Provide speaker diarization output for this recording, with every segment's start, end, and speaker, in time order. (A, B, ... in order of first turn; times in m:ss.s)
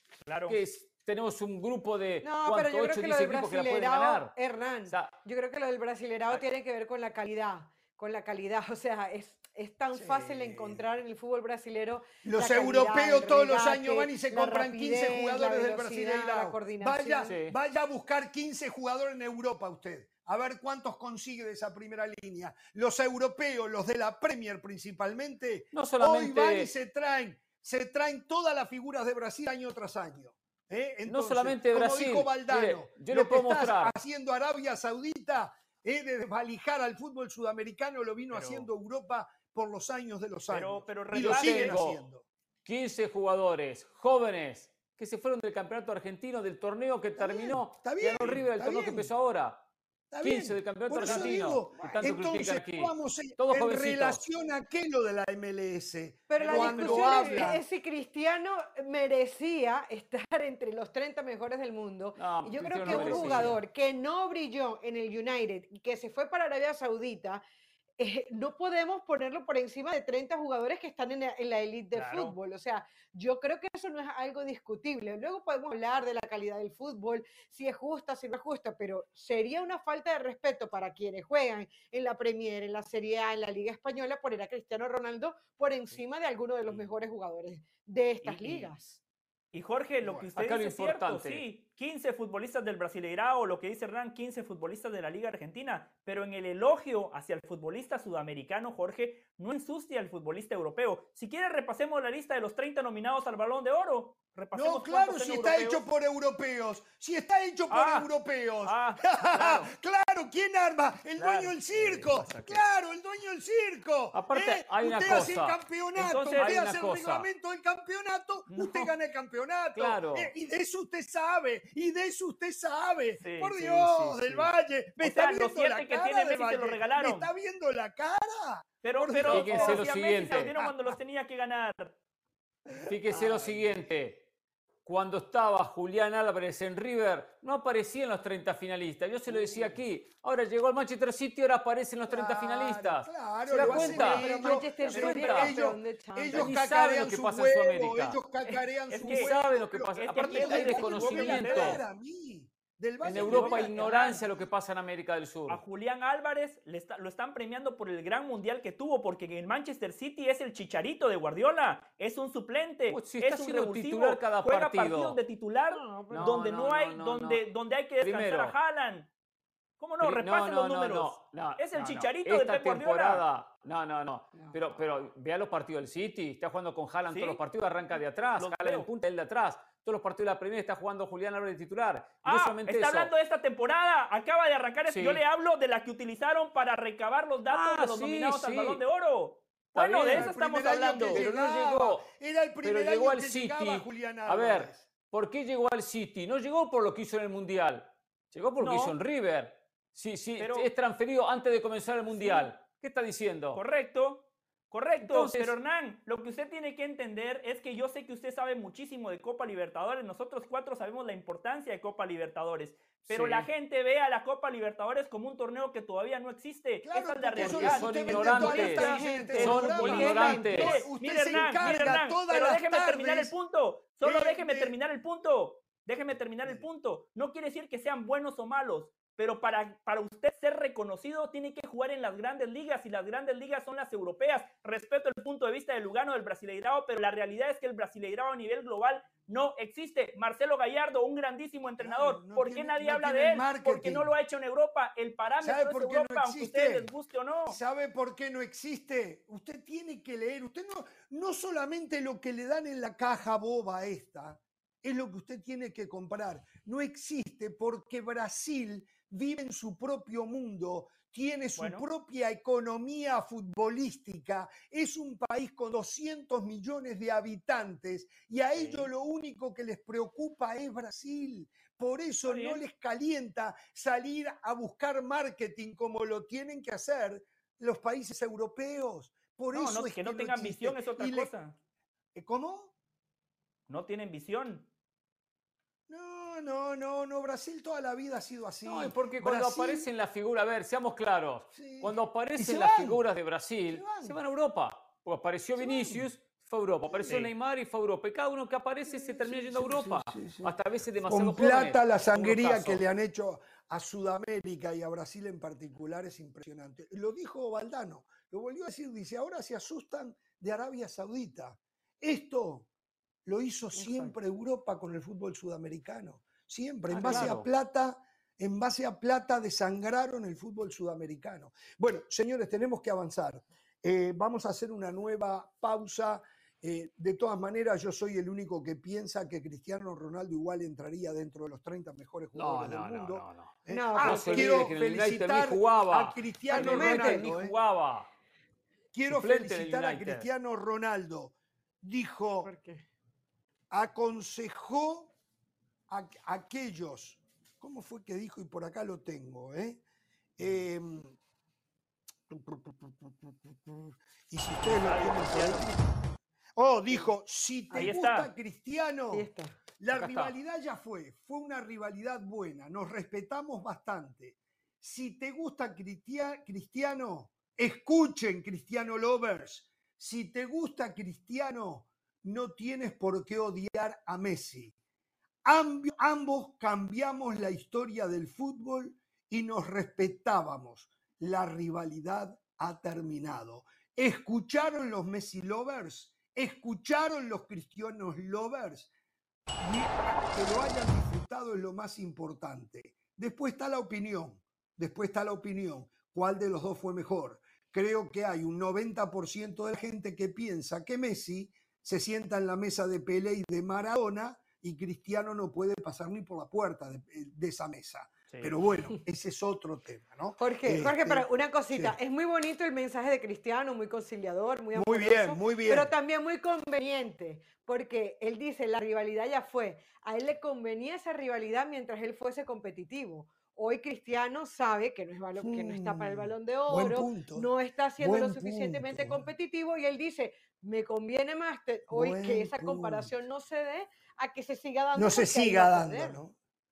0:00.2-0:00.6 A
0:00.5-0:04.4 B
0:02.2-0:17.3 C
0:04.9-0:05.1 B
0:09.9-0:10.8 D
0:12.2-0:42.2 D
0:17.2-0:17.6 B
0:25.7-0:26.7 B
0:31.0-0:33.9 B
0:38.3-0:38.7 B
0:40.5-0:41.8 A
0:41.1-0:42.0 B
0:42.6-0:49.6 B
0:47.2-0:49.1 D
0:50.1-0:57.6 D
0:50.2-0:54.2 B
0:56.3-1:07.4 C
0:56.4-0:57.5 A
1:02.2-1:03.6 B
1:02.8-1:03.5 D
1:02.9-1:03.4 A
1:08.0-1:29.0 C
1:11.9-1:12.4 A
1:28.2-1:28.7 A
1:29.5-1:45.8 A
1:30.0-1:30.3 D
1:30.4-1:31.4 B
1:44.5-2:10.9 D
1:47.7-1:48.1 A
1:48.6-1:49.7 A
1:51.2-1:52.6 A
1:54.1-1:55.6 B
1:55.0-1:55.3 A
1:56.0-1:56.6 A
1:56.2-1:57.3 B
1:58.5-1:58.9 A
1:59.7-2:00.3 B
2:03.2-2:04.4 A
2:05.0-2:07.3 A
2:08.8-2:12.0 A
2:09.3-2:10.6 B
2:12.7-2:13.7 D
2:12.9-2:14.3 B
2:14.8-2:25.6 B
2:19.3-2:19.8 D
2:22.1-2:33.9 D
2:23.5-2:26.5 C
2:26.3-2:28.2 B
2:28.5-2:29.3 A
2:29.0-2:31.8 B
2:30.0-2:31.8 A
2:33.0-2:35.6 B
2:33.1-2:34.2 C
2:33.2-2:34.2 A
2:35.5-2:49.1 A
2:42.9-2:45.2 B
2:45.7-2:46.4 C
2:46.1-2:47.4 B
2:48.0-2:48.6 B
2:49.8-2:53.2 A
2:50.0-3:03.1 B
2:54.3-2:55.0 C
2:57.1-2:57.4 A
2:58.4-2:58.9 A
3:02.2-3:11.3 A
3:04.9-3:05.2 B
3:07.5-3:08.8 B
3:09.7-3:10.3 B
3:10.1-3:14.8 D
3:11.0-3:12.1 B
3:12.6-3:23.6 B
3:18.6-3:19.0 A
3:20.4-3:20.7 A
3:22.2-3:22.5 A
3:23.5-4:07.6 A
3:25.0-3:25.5 B
3:33.1-3:33.5 B
3:36.8-3:43.3 D
3:37.4-3:40.8 B
3:38.2-3:40.8 C
3:44.0-3:44.8 D
4:01.8-4:04.1 D
4:05.4-4:06.9 D
4:07.5-4:41.3 D
4:21.6-4:21.8 A
4:28.5-4:28.9 A
4:32.3-4:32.6 A
4:39.5-4:41.5 A
4:42.1-4:42.7 D
4:43.7-4:44.7 A
4:45.9-4:49.9 D
4:48.6-5:02.8 B
4:51.5-4:53.0 D
4:53.7-4:54.2 D
4:55.6-4:56.1 D
4:56.9-4:57.3 D
4:58.9-5:00.5 D
5:01.0-5:12.7 D
5:13.2-5:37.5 D
5:13.7-5:14.1 C
5:16.9-5:17.5 B
5:32.3-5:38.1 B
5:33.7-5:34.7 C
5:36.5-5:37.3 C
5:38.9-5:42.5 D
5:39.1-5:40.3 B
5:42.4-5:42.8 C
5:43.7-5:45.1 D
5:45.9-5:49.8 D
5:50.4-5:51.2 D
5:52.3-5:56.0 D
5:54.6-5:55.7 A
5:56.6-6:14.7 D
5:57.7-5:58.3 A
5:59.1-5:59.6 C
5:59.9-6:00.4 B
6:15.4-6:28.9 D
6:29.6-6:52.0 D
6:50.4-7:16.2 C
6:54.7-6:55.9 D
7:05.4-7:09.3 D
7:11.9-7:13.1 D
7:14.9-7:16.3 D